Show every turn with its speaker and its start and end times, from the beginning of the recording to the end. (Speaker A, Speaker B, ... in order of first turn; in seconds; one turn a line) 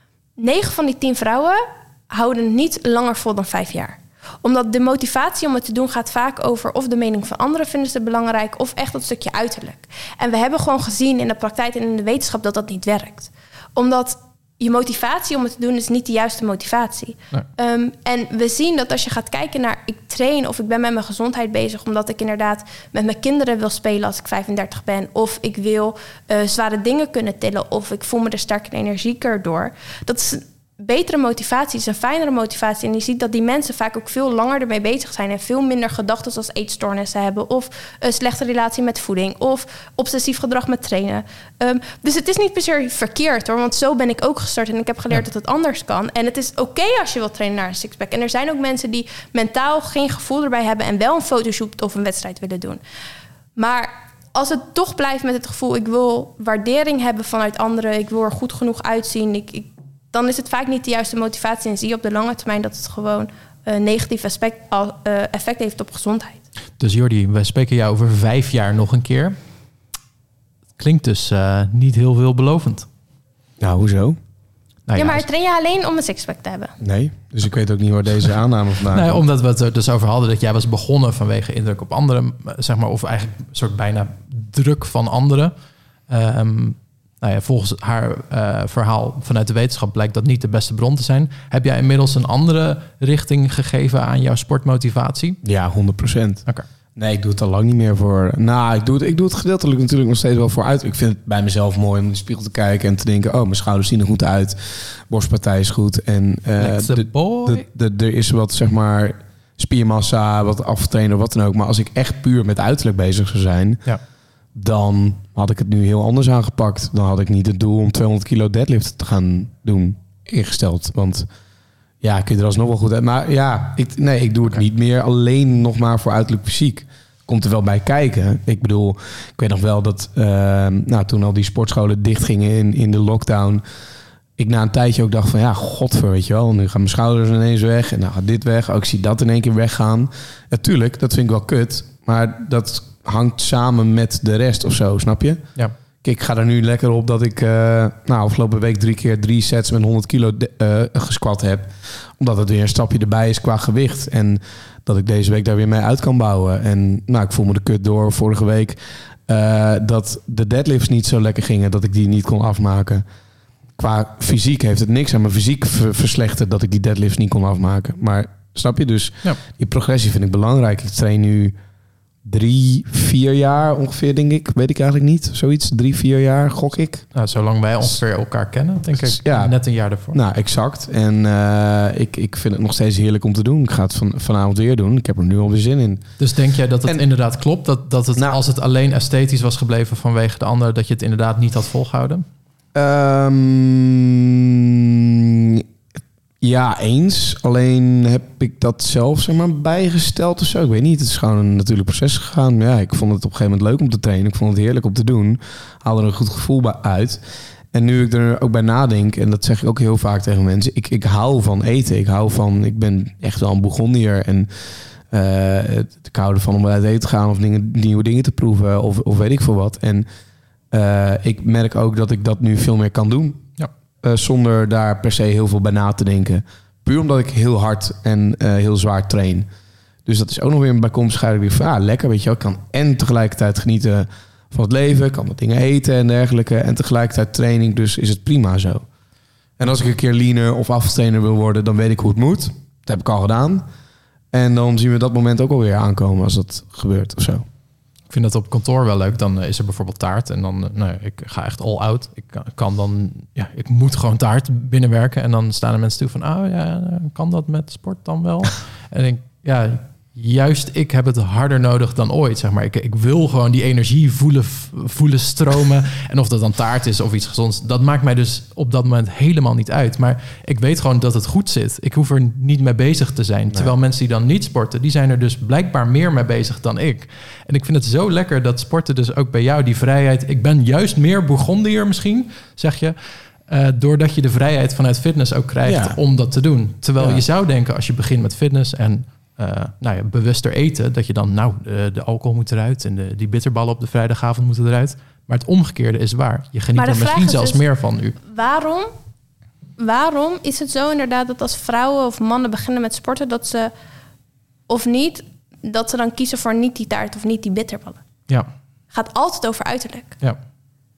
Speaker A: 0.4-52.8
Speaker A: 53.6-66.4
Speaker B: 66.8-69.4
Speaker B: 70.8-72.9
Speaker C: 73.6-74.2
Speaker B: 74.9-75.3
Speaker A: 75.0-76.8
Speaker C: 76.8-79.2
Speaker B: 78.9-85.5
Speaker B: 86.1-95.4
Speaker C: 95.4-96.5
Speaker C: 97.0-113.8
Speaker B: 106.6-107.7
Speaker C: 114.5-121.3
Speaker C: 122.0-133.6
Speaker C: 134.4-145.4
Speaker C: 146.0-163.0
Speaker C: 163.8-171.5
Speaker C: 172.2-177.1
Speaker B: 177.1-180.2
Speaker C: 178.9-179.6
Speaker C: 180.1-186.1
Speaker B: 186.2-192.2
Speaker C: 192.7-195.6
Speaker C: 196.4-207.2
Speaker C: 207.7-214.5
Speaker C: 215.1-220.1
Speaker C: 220.7-223.4
Speaker C: 224.0-229.5
Speaker C: 230.1-238.9
Speaker C: 239.6-243.6
Speaker C: 244.3-247.4
Speaker B: 248.1-283.0
Speaker B: 283.5-298.2
Speaker C: 285.6-286.0
Speaker C: 287.0-287.2
Speaker A: 296.8-297.6
Speaker A: 298.2-298.9
Speaker A: 299.8-303.7
Speaker A: 304.7-308.0
Speaker A: 308.9-310.2